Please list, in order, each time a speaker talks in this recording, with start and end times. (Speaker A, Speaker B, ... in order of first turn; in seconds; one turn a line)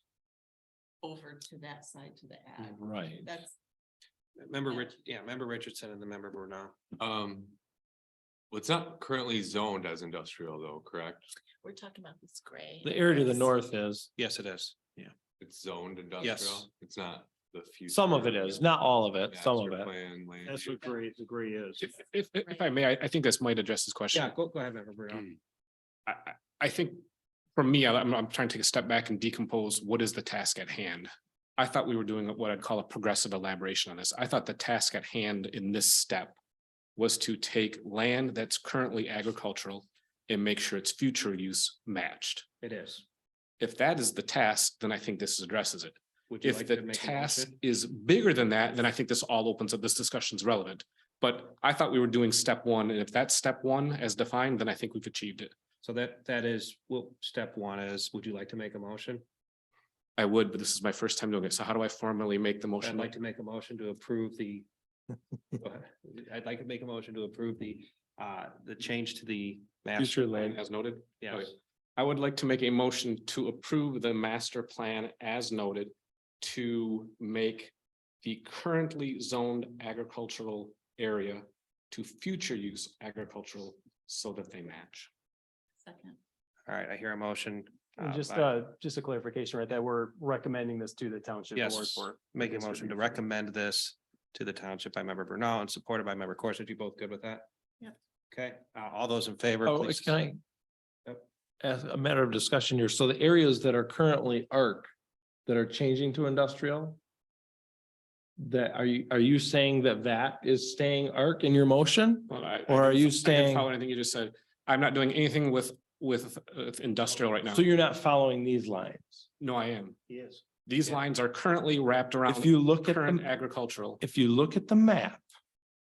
Speaker A: 1.0-3.6
Speaker B: 2.6-3.4
Speaker C: 4.4-6.8
Speaker A: 4.7-5.0
Speaker D: 7.0-7.6
Speaker D: 8.5-11.3
Speaker A: 11.6-13.5
Speaker B: 12.8-14.1
Speaker C: 14.2-14.8
Speaker D: 15.4-18.7
Speaker C: 16.2-16.7
Speaker B: 17.9-19.9
Speaker D: 19.3-21.0
Speaker C: 20.5-21.9
Speaker E: 21.8-24.3
Speaker C: 24.1-25.3
Speaker E: 26.1-27.0
Speaker E: 27.6-36.4
Speaker E: 37.0-42.5
Speaker C: 42.6-43.0
Speaker E: 43.6-55.5
Speaker C: 46.3-47.6
Speaker C: 55.8-59.2
Speaker E: 60.2-63.1
Speaker C: 62.8-64.7
Speaker C: 65.6-70.4
Speaker B: 70.0-70.6
Speaker E: 70.4-85.1
Speaker C: 71.2-71.5
Speaker A: 85.8-86.2
Speaker C: 86.7-88.6
Speaker F: 88.0-93.2
Speaker C: 91.6-97.5
Speaker C: 98.3-100.2
Speaker B: 99.7-100.4
Speaker B: 101.6-104.9
Speaker B: 105.5-107.0
Speaker B: 108.4-113.7
Speaker E: 112.3-117.7
Speaker B: 117.5-119.3
Speaker E: 119.4-120.0
Speaker C: 120.1-121.0
Speaker E: 120.7-124.0
Speaker B: 122.2-123.4
Speaker B: 124.0-125.2